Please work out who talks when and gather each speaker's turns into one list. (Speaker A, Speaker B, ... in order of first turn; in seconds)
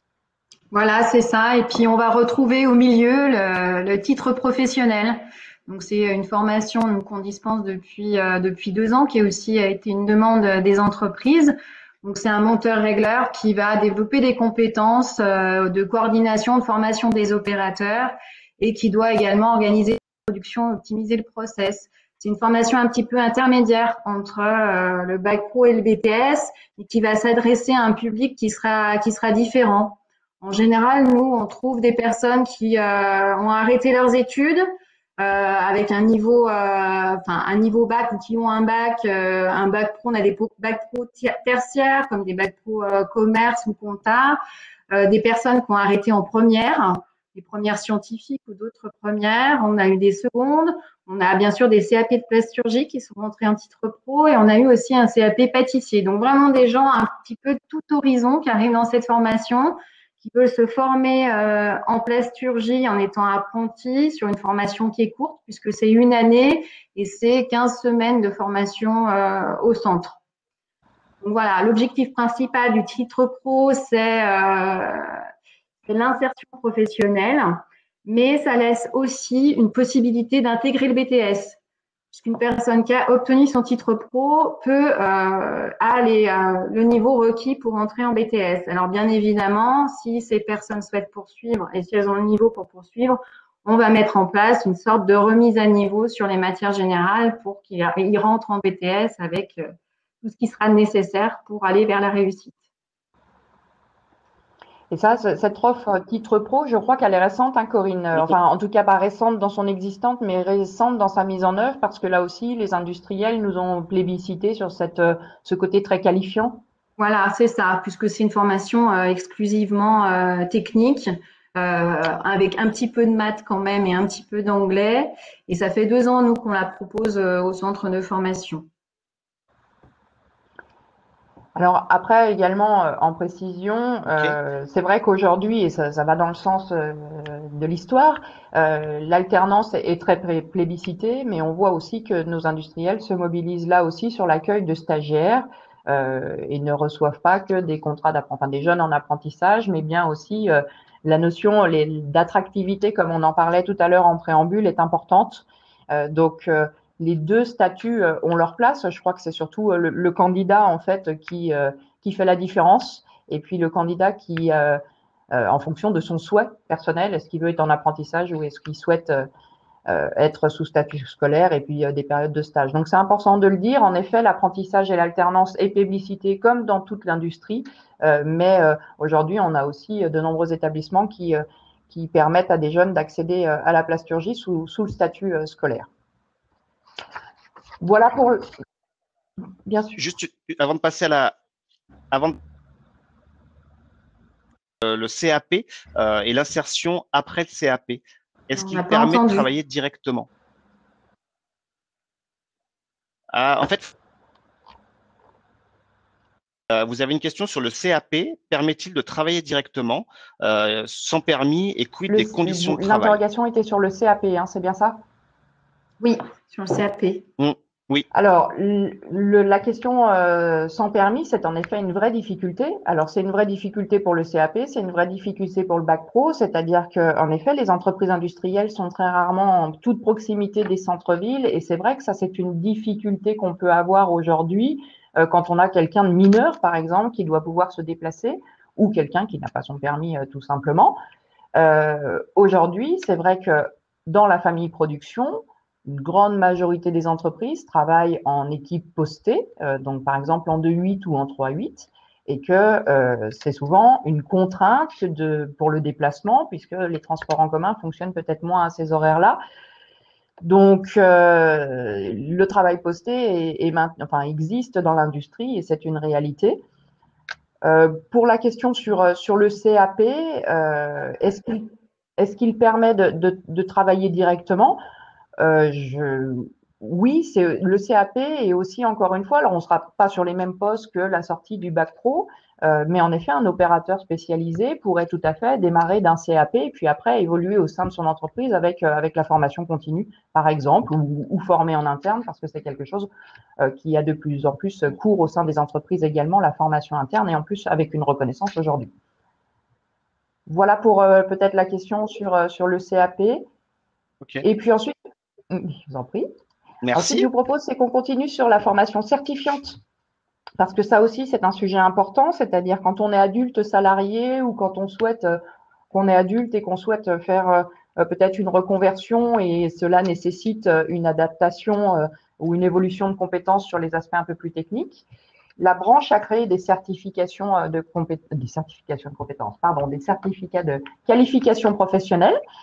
Speaker A: 0.7-34.7, 35.2-44.4, 44.9-70.2, 71.2-75.2, 75.9-81.6, 82.1-102.6, 117.0-128.7, 198.6-199.5, 216.0-217.3
Speaker B: 104.9-116.6, 131.6-169.3, 169.9-185.9, 187.8-188.5, 189.7-190.0, 212.1-215.0, 218.1-241.0, 241.6-259.4, 260.4-266.6, 267.6-274.8, 275.4-298.9, 300.5-303.4, 304.4-304.9, 305.5-306.3, 306.9-309.8, 310.6-315.4, 315.9-325.1, 325.6-332.4
Speaker C: 190.0-191.4, 192.1-192.4, 194.8-200.3, 203.3-203.9, 206.7-213.2, 217.4-218.1, 306.8-307.3